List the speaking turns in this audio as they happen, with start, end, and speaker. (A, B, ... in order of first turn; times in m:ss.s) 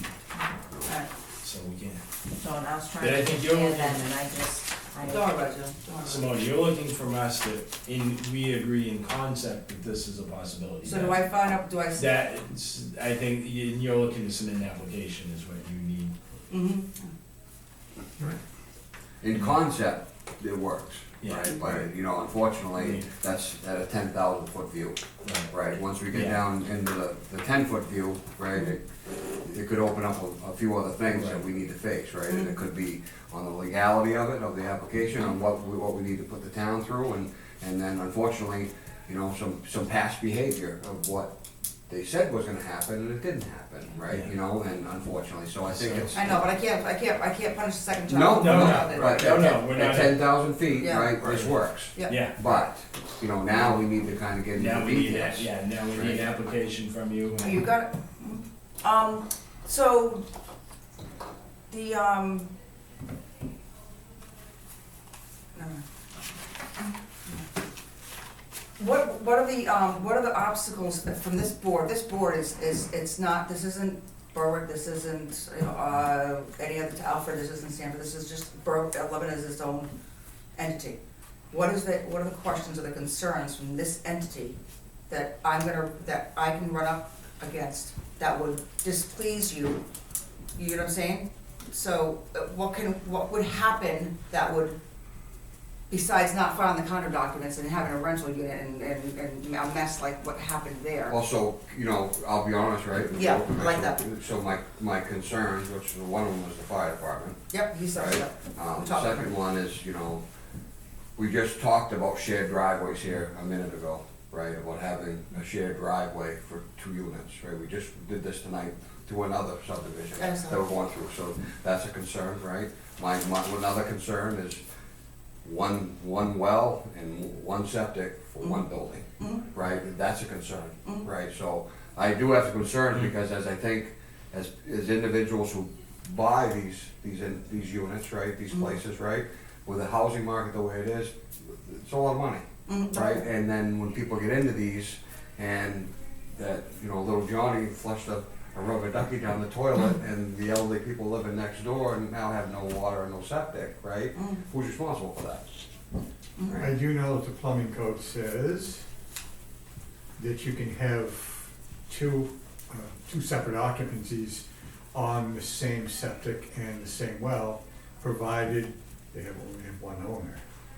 0:01.4-0:02.0 A
0:02.4-0:05.3 B
0:03.0-0:04.0 A
0:05.0-0:06.3 C
0:06.0-0:11.2 A
0:10.8-0:12.1 C
0:12.0-0:16.1 A
0:16.5-0:17.1 C
0:19.2-0:28.9 D
0:21.2-0:21.8 A
0:22.8-0:23.1 A
0:25.2-0:25.5 A
0:26.1-0:26.4 A
0:29.4-0:41.3 D
0:31.1-0:31.4 A
0:41.9-0:46.4 D
0:45.7-0:46.2 A
0:46.1-0:49.5 C
0:48.1-0:56.3 D
0:48.4-0:50.3 A
0:50.8-0:51.4 C
0:51.2-0:51.5 A
0:52.0-0:52.6 C
0:52.1-0:52.4 A
0:54.5-0:57.7 A
0:57.4-1:00.2 C
1:01.7-1:02.5 C
1:05.5-1:05.8 C
1:06.8-1:07.4 C
1:08.8-1:19.9 C
1:20.6-1:21.0 C
1:21.5-1:24.6 C
1:25.1-1:29.8 C
1:30.6-1:34.8 C
1:35.9-1:41.2 C
1:41.1-1:47.4 D
1:43.1-1:44.0 C
1:47.5-1:49.3 C
1:47.9-1:50.2 D
1:51.2-2:04.6 D
2:00.2-2:00.7 C
2:05.4-2:35.4 D
2:09.2-2:09.5 C
2:18.5-2:18.8 C
2:22.7-2:23.2 C
2:34.2-2:34.4 C
2:36.4-2:36.7 C
2:36.6-2:38.8 E
2:40.2-2:50.4 E